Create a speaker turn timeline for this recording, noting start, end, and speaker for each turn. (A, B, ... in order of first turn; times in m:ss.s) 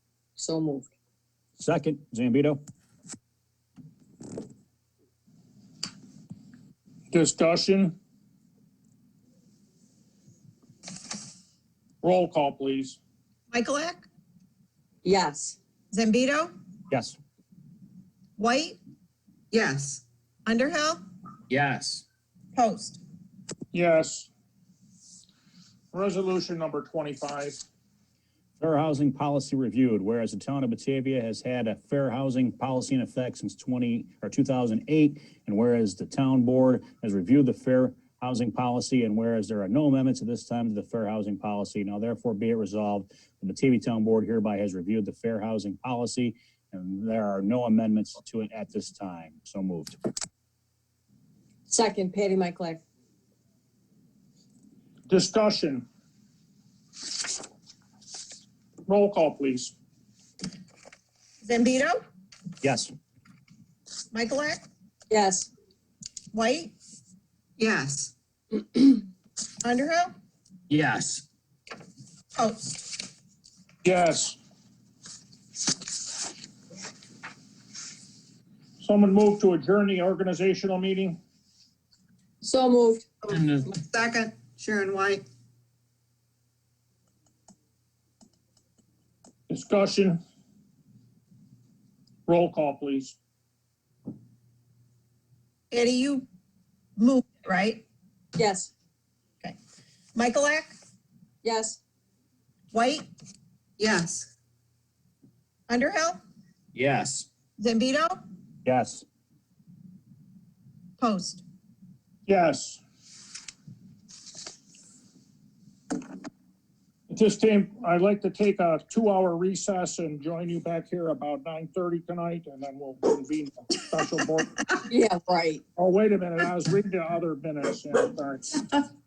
0:00.4-0:00.9 A
0:01.6-0:02.6 B
0:07.1-0:08.0 C
0:12.0-0:13.0 C
0:13.5-0:14.1 D
0:15.0-0:15.6 A
0:15.9-0:16.5 D
0:16.9-0:17.2 B
0:18.4-0:18.8 D
0:19.5-0:20.0 E
0:20.5-0:21.0 D
0:21.5-0:22.0 F
0:22.6-0:23.0 D
0:23.7-0:24.3 C
0:25.9-0:27.6 C
0:28.6-0:50.0 B
0:51.7-0:52.8 A
0:55.1-0:55.8 C
0:58.9-0:59.7 C
1:01.4-1:02.0 D
1:02.6-1:02.9 B
1:04.1-1:04.6 D
1:05.1-1:05.5 A
1:06.3-1:06.7 D
1:07.6-1:08.1 E
1:09.6-1:10.1 D
1:10.7-1:11.2 F
1:12.4-1:12.9 D
1:13.8-1:14.4 C
1:18.8-1:21.2 C
1:22.4-1:23.1 A
1:23.2-1:25.2 E
1:23.3-1:23.6 F
1:29.5-1:30.2 C
1:32.3-1:33.2 C
1:35.7-1:36.3 D
1:37.0-1:37.8 D
1:38.4-1:38.7 A
1:40.2-1:40.7 D
1:41.4-1:41.8 A
1:42.7-1:43.1 D
1:43.8-1:44.3 E
1:45.7-1:46.2 D
1:46.8-1:47.3 F
1:47.6-1:48.2 D
1:48.6-1:49.0 B
1:51.0-1:51.4 D
1:52.3-1:52.8 C
1:57.1-2:04.6 C
2:04.9-2:05.6 A
2:05.8-2:08.6 C